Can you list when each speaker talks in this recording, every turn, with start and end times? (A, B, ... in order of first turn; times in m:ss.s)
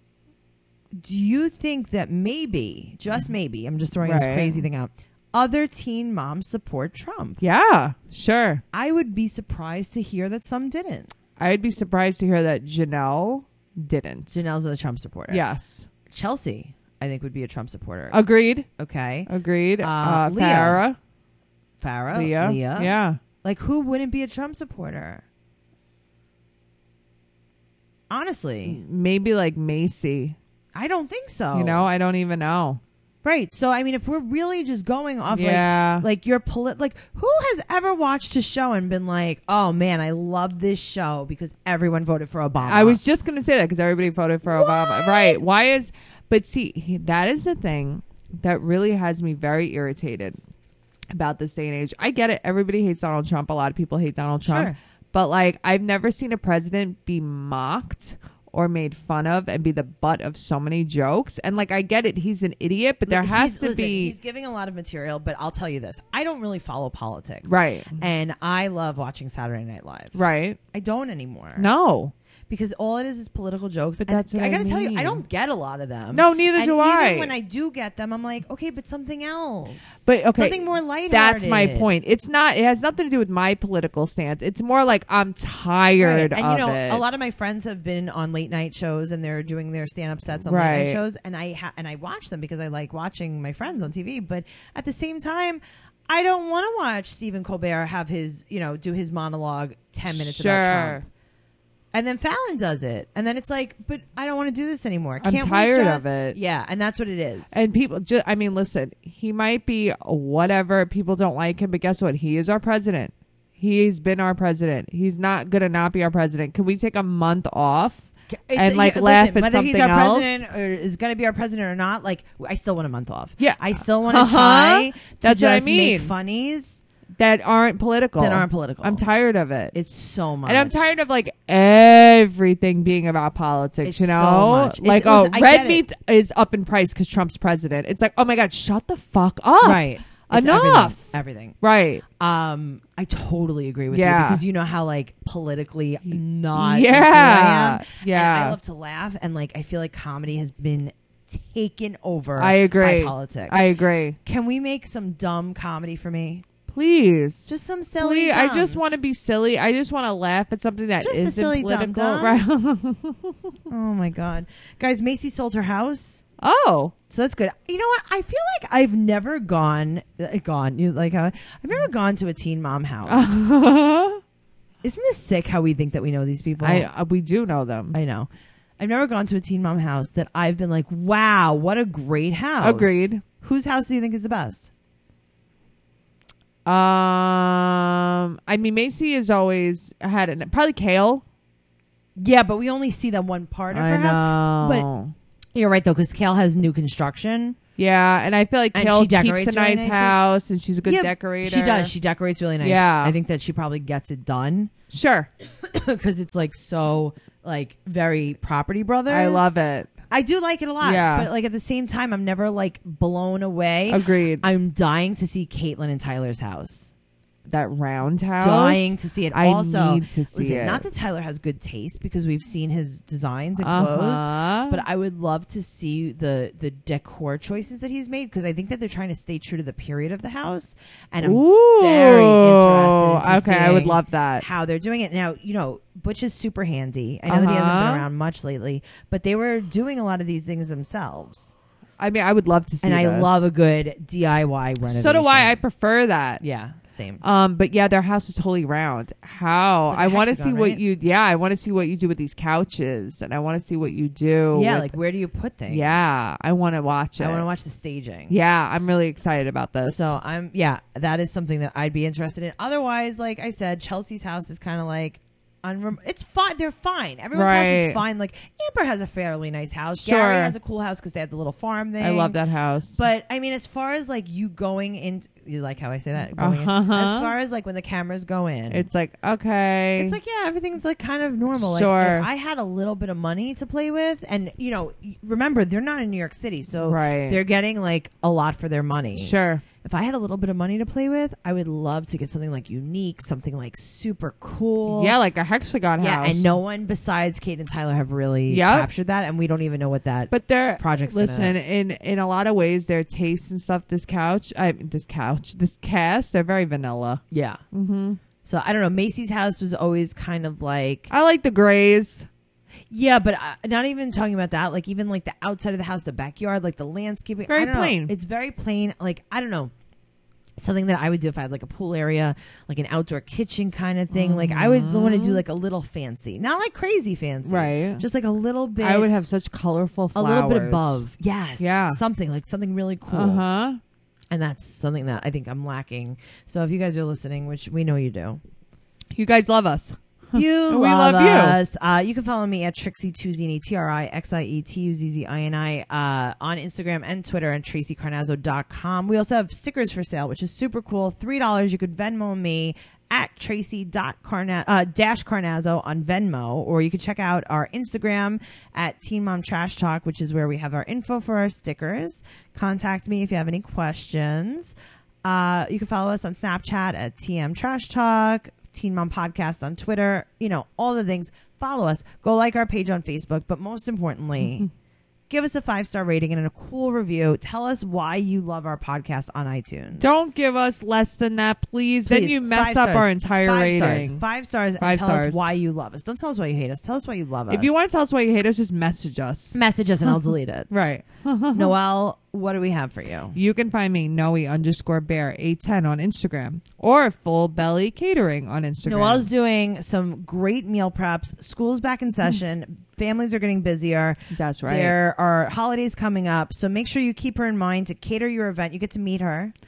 0:01.0-0:07.4 A
0:04.0-0:04.6 B
0:07.4-0:08.6 B
0:08.7-0:11.1 A
0:11.4-0:14.4 B
0:14.3-0:15.4 A
0:15.3-0:15.9 B
0:16.1-0:18.2 A
0:18.1-0:18.7 B
0:18.8-0:19.3 A
0:19.3-0:21.0 B
0:19.8-0:20.8 A
0:21.8-0:25.2 A
0:22.1-0:23.2 B
0:28.1-0:28.8 A
0:28.6-0:30.4 B
0:30.7-0:31.8 A
0:31.5-0:32.8 B
0:33.2-0:43.0 A
0:35.3-0:36.0 B
0:42.6-0:50.4 B
0:44.5-0:45.4 A
0:51.1-1:04.1 B
0:54.4-0:54.8 A
1:03.1-1:10.2 A
1:07.4-1:08.0 B
1:10.1-1:10.6 B
1:10.7-1:11.7 A
1:11.6-1:12.1 B
1:12.5-1:21.9 A
1:14.0-1:15.2 B
1:16.1-1:17.3 B
1:20.0-1:27.0 B
1:26.0-1:41.1 A
1:30.5-1:31.0 B
1:40.1-1:41.0 B
1:41.9-1:47.5 A
1:45.2-1:46.4 B
1:47.5-2:00.4 B
1:58.3-2:06.8 A
2:03.4-2:06.1 B
2:07.2-2:09.7 B
2:08.2-2:09.1 A
2:09.7-2:10.9 A
2:10.4-2:22.0 B
2:13.8-2:15.8 A
2:19.6-2:21.6 A
2:22.2-2:33.7 A
2:23.9-2:24.4 B
2:26.1-2:28.6 B
2:32.4-2:34.2 B
2:34.2-2:36.4 A
2:36.7-2:43.5 B
2:37.5-2:39.0 A
2:41.0-2:42.4 A
2:43.7-2:46.2 A
2:46.4-2:46.9 B
2:47.1-2:53.3 A
2:53.0-2:54.2 B
2:54.8-2:56.9 A
2:56.6-2:58.0 B
2:57.9-3:04.7 A
3:02.6-3:03.2 B
3:06.6-3:11.2 B
3:12.2-3:14.9 A
3:13.7-3:15.1 B
3:15.5-3:17.6 A
3:17.8-3:21.9 B
3:18.7-3:20.2 A
3:20.8-3:24.7 A
3:22.6-3:23.2 B
3:24.9-3:25.3 B
3:25.6-3:29.4 A
3:29.1-3:29.9 B
3:30.1-3:36.9 A
3:30.8-3:31.3 B
3:33.9-3:34.4 B
3:37.4-3:40.8 B
3:38.4-4:01.5 A
3:43.6-3:44.8 B
3:51.2-3:54.4 B
3:57.3-3:58.1 B
4:02.0-4:03.5 B
4:02.8-4:05.6 A
4:04.8-4:06.4 B
4:06.4-4:07.2 A
4:07.2-4:14.9 B
4:09.9-4:10.8 A
4:14.5-4:16.2 A
4:15.7-4:17.4 B
4:17.2-4:18.3 A
4:18.3-4:20.1 B
4:19.8-4:32.4 A
4:27.3-4:28.0 B
4:30.0-4:30.5 B
4:32.0-4:33.0 B
4:32.9-4:38.8 A
4:36.4-4:37.3 B
4:38.7-4:40.2 B
4:40.0-4:55.1 A
4:41.6-4:42.3 B
4:46.8-4:47.4 B
4:49.2-4:49.6 B
4:54.9-4:56.5 B
4:56.0-5:01.6 A
4:58.5-4:58.9 B
5:00.3-5:08.2 B
5:07.3-5:07.6 A
5:08.4-5:11.1 A
5:11.1-5:12.3 B
5:12.9-5:19.7 A
5:17.5-5:18.1 B
5:20.6-5:29.1 A
5:24.1-5:25.4 B
5:27.4-5:28.0 B
5:28.8-5:31.0 B
5:30.1-5:33.4 A
5:31.6-5:32.0 B
5:33.1-5:33.8 B
5:34.3-5:38.4 A
5:39.1-5:41.6 B
5:40.3-6:14.7 A
6:15.3-6:20.1 A
6:20.0-6:24.2 B
6:22.0-6:27.7 A
6:24.8-6:25.5 B
6:27.5-6:30.1 B
6:29.5-6:30.7 A
6:30.7-6:31.7 B
6:31.5-6:33.4 A
6:33.3-6:39.3 B
6:38.8-6:49.5 A
6:44.3-6:44.9 B